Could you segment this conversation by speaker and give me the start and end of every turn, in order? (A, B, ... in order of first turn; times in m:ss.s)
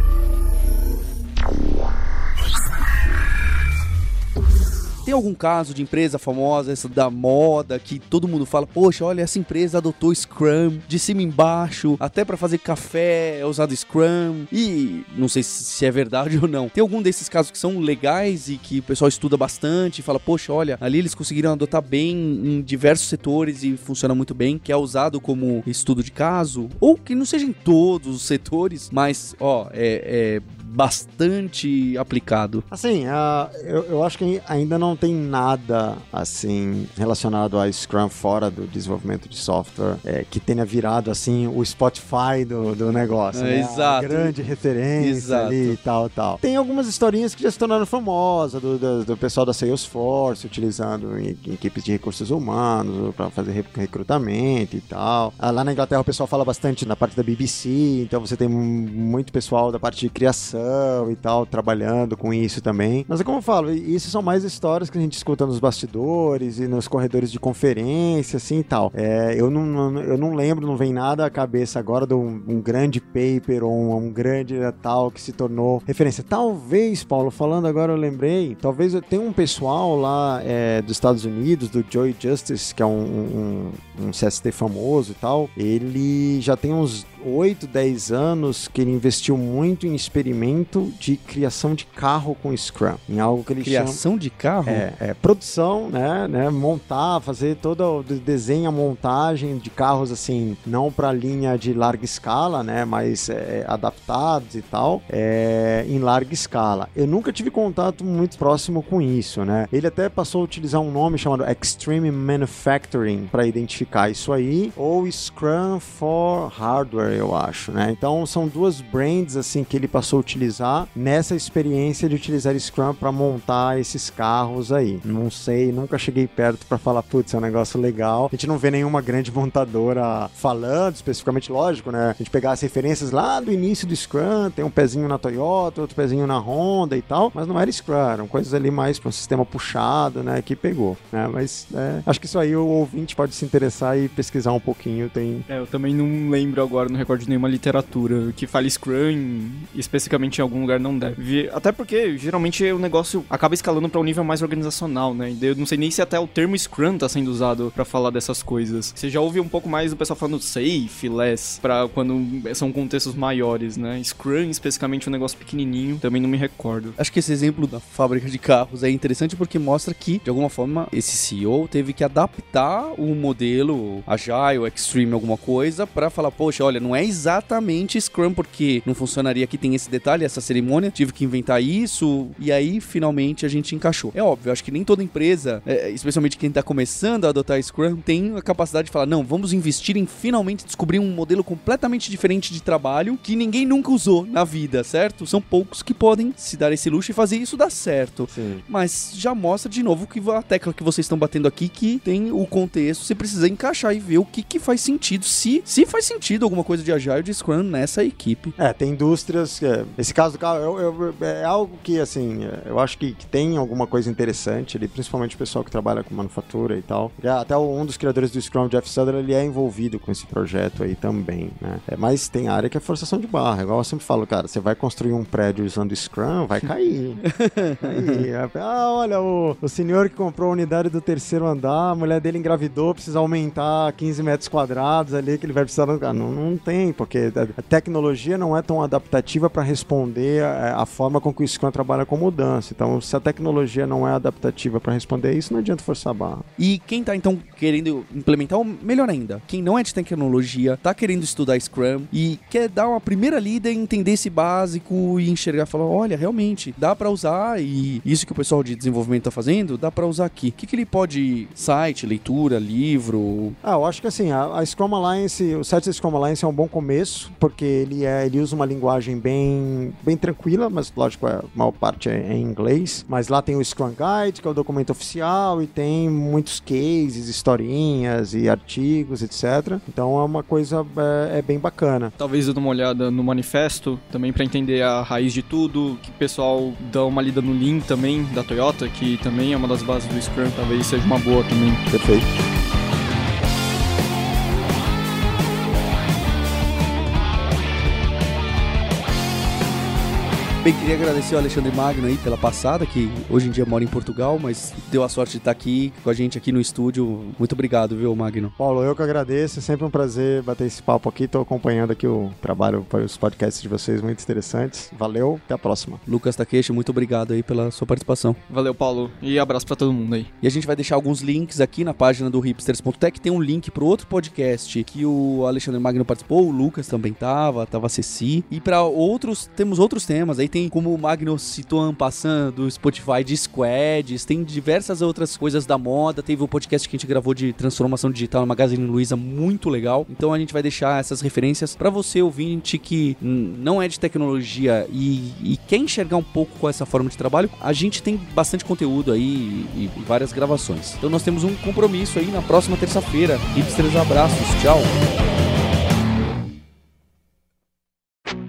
0:05.0-0:32.6 A
0:32.7-1:34.0 B
0:43.3-0:44.3 A
0:45.0-0:45.8 A
1:33.6-1:34.9 A
1:34.7-2:25.5 B
2:25.5-2:47.0 C
2:47.0-3:28.5 A
3:18.3-3:18.6 B
3:28.6-3:47.2 B
3:47.3-3:48.3 A
3:47.8-4:06.4 B
4:06.6-4:23.6 A
4:23.6-4:42.1 B
4:42.2-4:51.8 C
4:51.9-4:52.4 B
5:00.6-5:08.5 A
5:08.6-5:16.0 B
5:16.1-5:18.4 A
5:18.5-5:20.3 C
5:20.4-5:54.9 A